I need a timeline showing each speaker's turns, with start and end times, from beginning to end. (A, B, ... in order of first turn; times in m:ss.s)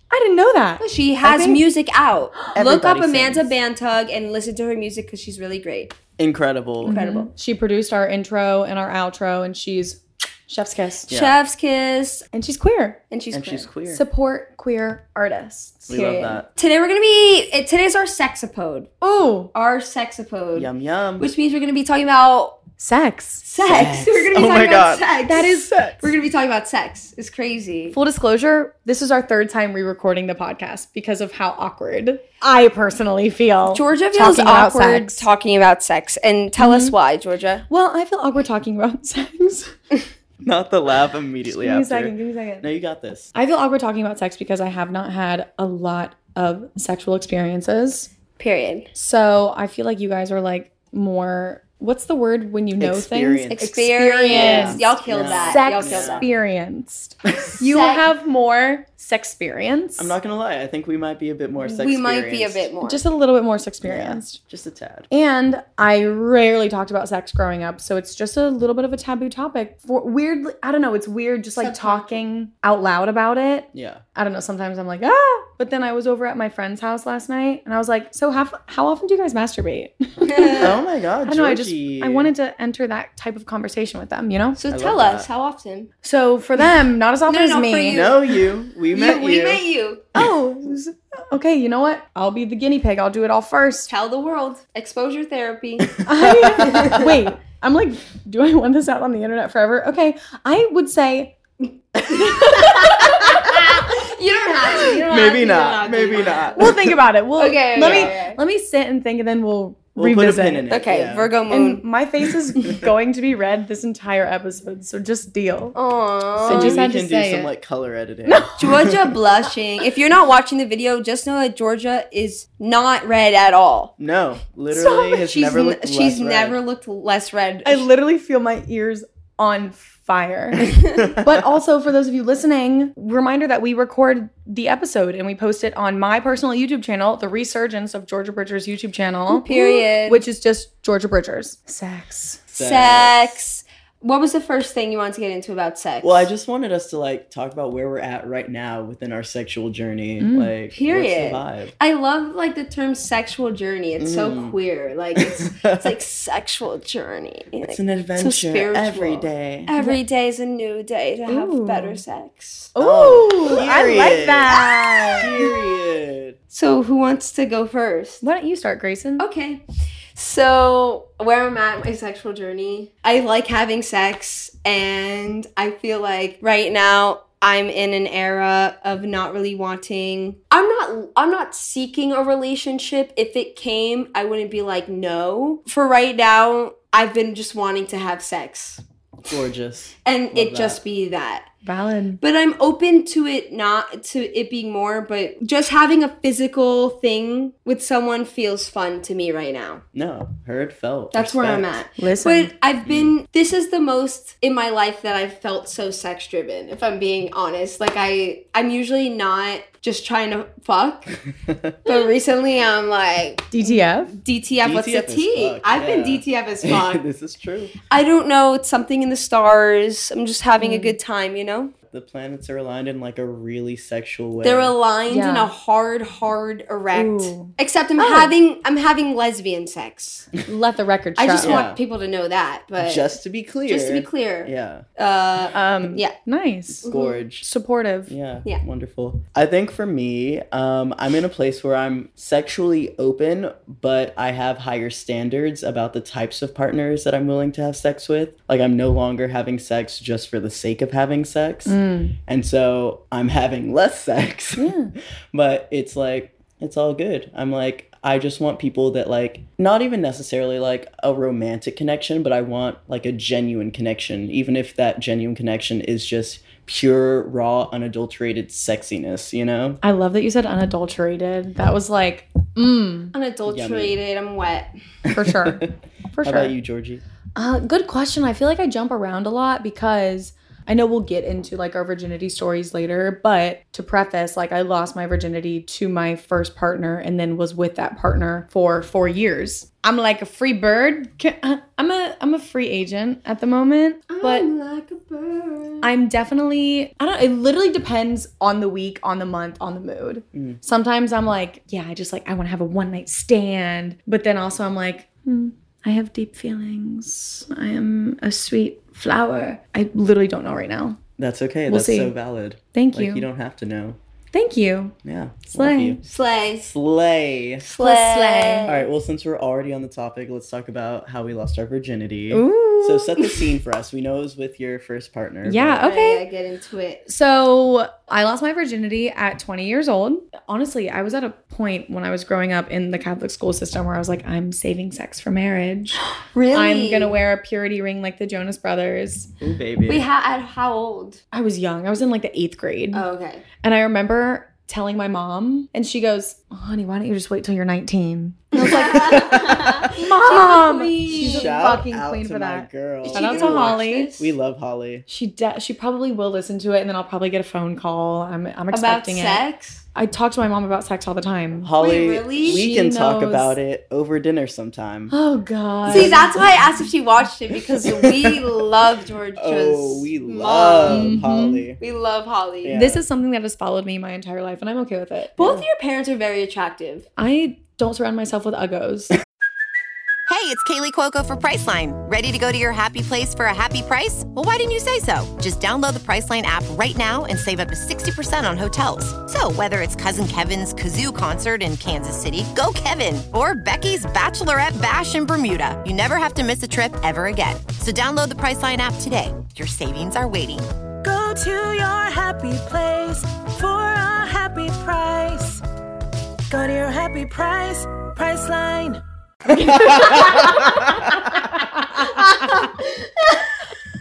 0:00.1-0:01.6 A
0:00.8-0:06.0 B
0:02.5-0:03.5 C
0:06.2-0:07.0 C
0:06.8-0:11.1 A
0:06.9-0:07.3 B
0:11.1-0:11.3 C
0:11.1-0:12.2 B
0:12.3-0:13.0 A
0:13.1-0:13.7 B
0:13.3-0:14.0 C
0:13.9-0:16.0 A
0:15.9-0:16.5 C
0:15.9-0:18.9 B
0:19.0-0:19.5 A
0:19.5-0:22.6 B
0:20.6-0:21.3 C
0:22.8-0:23.4 A
0:23.4-0:28.0 B
0:23.6-0:26.1 C
0:25.2-0:25.7 A
0:27.9-0:35.3 A
0:33.7-0:37.6 B
0:36.6-0:36.9 A
0:37.7-0:39.7 A
0:40.4-0:43.3 C
0:41.4-0:42.7 A
0:43.3-0:48.1 A
0:48.4-0:48.9 B
0:48.9-1:00.2 A
0:52.8-0:53.7 C
0:53.5-0:56.3 B
0:54.3-0:56.2 C
0:57.6-0:58.1 B
1:00.0-1:02.7 C
1:01.7-1:03.0 B
1:02.8-1:04.4 A
1:03.8-1:05.1 C
1:05.1-1:20.7 A
1:11.6-1:12.2 B
1:13.7-1:14.0 C
1:20.2-1:20.7 B
1:20.6-1:22.3 C
1:21.2-1:24.6 A
1:24.6-1:25.9 B
1:24.7-1:25.3 C
1:26.0-1:28.0 A
1:27.3-1:28.4 B
1:27.9-1:29.6 C
1:28.9-1:30.1 B
1:30.1-1:33.9 A
1:33.9-1:36.0 B
1:36.0-1:37.0 C
1:36.0-1:41.4 A
1:36.6-1:37.1 B
1:42.1-1:43.4 A
1:42.1-1:46.8 B
1:44.8-1:46.9 C
1:46.6-1:50.6 A
1:47.4-1:48.4 B
1:47.8-1:48.1 C
1:49.9-1:51.3 C
1:50.7-1:51.8 B
1:51.5-1:55.8 A
1:55.7-1:56.8 B
1:56.4-1:57.5 A
1:56.4-1:59.1 C
1:58.2-1:58.8 A
1:58.6-2:03.9 B
2:04.0-2:06.6 C
2:04.7-2:07.8 B
2:07.6-2:22.4 A
2:10.6-2:11.1 B
2:19.3-2:20.2 B
2:22.5-2:23.4 C
2:22.5-2:26.3 B
2:26.0-2:31.7 C
2:30.2-2:30.5 A
2:30.7-2:42.7 B
2:34.0-2:34.6 C
2:35.2-2:35.9 C
2:37.6-2:39.7 C
2:41.3-2:42.0 A
2:42.7-2:45.3 A
2:42.8-2:44.6 C
2:44.5-2:45.9 B
2:45.2-2:46.4 C
2:46.5-2:48.2 B
2:48.2-2:49.2 A
2:49.2-2:49.6 B
2:50.1-3:08.8 B
3:09.3-3:10.8 C
3:10.0-3:11.5 B
3:11.6-3:12.2 A
3:12.2-3:19.8 B
3:19.9-3:21.7 C
3:21.1-3:31.2 B
3:22.0-3:22.5 A
3:22.8-3:23.1 C
3:31.4-3:31.7 C
3:31.8-3:37.0 B
3:33.5-3:34.2 A
3:34.6-3:37.8 C
3:37.9-3:41.7 B
3:40.6-3:41.0 A
3:41.9-3:44.7 C
3:44.4-3:50.3 B
3:45.1-3:45.5 A
3:46.9-3:48.3 A
3:50.4-3:51.6 A
3:51.2-3:53.1 B
3:51.4-3:51.8 C
3:52.8-3:54.8 C
3:53.6-3:56.1 B
3:55.5-3:56.9 A
3:56.8-3:57.2 B
3:56.8-3:57.5 C
3:57.4-3:58.1 A
3:58.1-4:14.7 C
4:11.6-4:12.2 A
4:14.6-4:14.9 A
4:15.3-4:29.8 C
4:29.8-4:33.1 A
4:33.1-4:34.7 B
4:33.4-4:34.0 C
4:35.1-4:35.7 C
4:35.1-4:36.5 A
4:36.2-4:37.0 C
4:37.4-4:54.5 A
4:54.1-4:55.9 B
4:55.8-5:11.0 A
5:00.3-5:00.6 C
5:11.2-5:14.0 C
5:11.7-5:12.1 A
5:12.7-5:13.3 A
5:14.3-5:14.9 A
5:15.0-5:16.0 C
5:15.5-5:16.0 A
5:16.0-5:16.7 B
5:16.6-5:17.6 C
5:17.6-5:18.8 B
5:17.8-5:18.8 A
5:18.7-5:25.8 C
5:22.3-5:23.1 A
5:23.2-5:23.5 B
5:25.4-5:26.2 A
5:25.8-5:27.0 B
5:27.1-5:36.0 A
5:36.2-5:37.1 B
5:36.5-5:39.3 A
5:39.4-5:40.0 C
5:39.8-5:41.2 B
5:41.3-5:43.0 A
5:42.9-5:43.4 B
5:43.6-5:54.2 A
5:48.5-5:51.8 B
5:49.0-5:49.8 C
5:51.1-5:55.0 C
5:53.0-5:54.3 B
5:55.1-5:59.4 A
5:58.7-5:59.8 B
5:59.9-6:01.7 A
6:01.6-6:05.1 C
6:01.8-6:02.6 B
6:02.4-6:03.6 A
6:05.1-6:06.7 A
6:05.8-6:06.6 C
6:05.9-6:11.2 B
6:07.7-6:08.6 C
6:09.4-6:11.8 C
6:10.9-6:11.6 A
6:11.8-6:12.8 B
6:12.6-6:13.0 C
6:12.7-6:15.4 A
6:15.4-6:17.1 B
6:17.2-6:19.2 A
6:20.3-6:40.7 D
6:41.0-6:45.6 E
6:46.5-6:49.0 E
6:49.5-6:51.4 C
6:49.6-6:52.6 A
6:52.4-6:53.3 B